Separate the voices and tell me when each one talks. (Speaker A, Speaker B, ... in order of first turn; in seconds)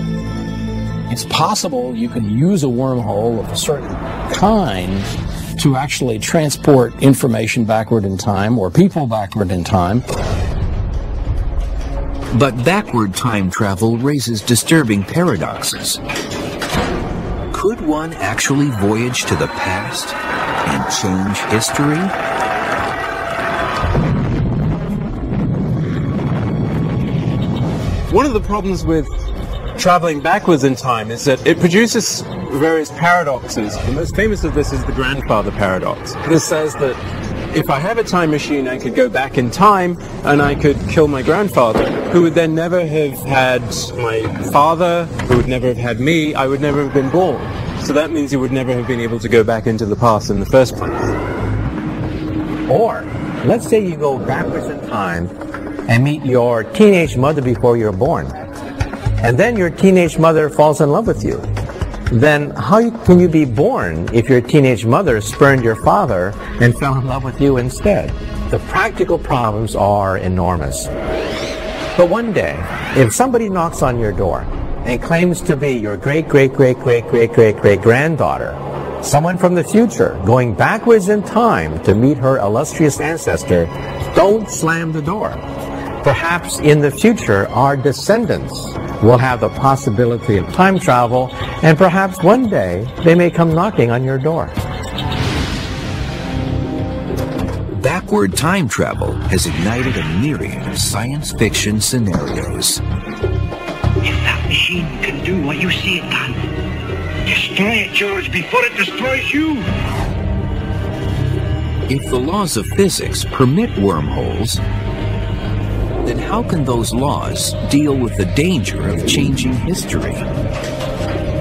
Speaker A: 1.1-10.1
Speaker B: 12.3-16.0, 17.5-22.1, 97.7-102.8, 111.9-114.6, 116.0-120.3
Speaker C: 28.1-29.1, 29.8-37.0, 37.5-51.1
Speaker D: 52.7-55.3, 55.9-58.4, 59.2-61.5, 62.1-70.9, 72.0-85.4, 86.0-94.5
Speaker E: 104.0-106.5, 107.2-109.7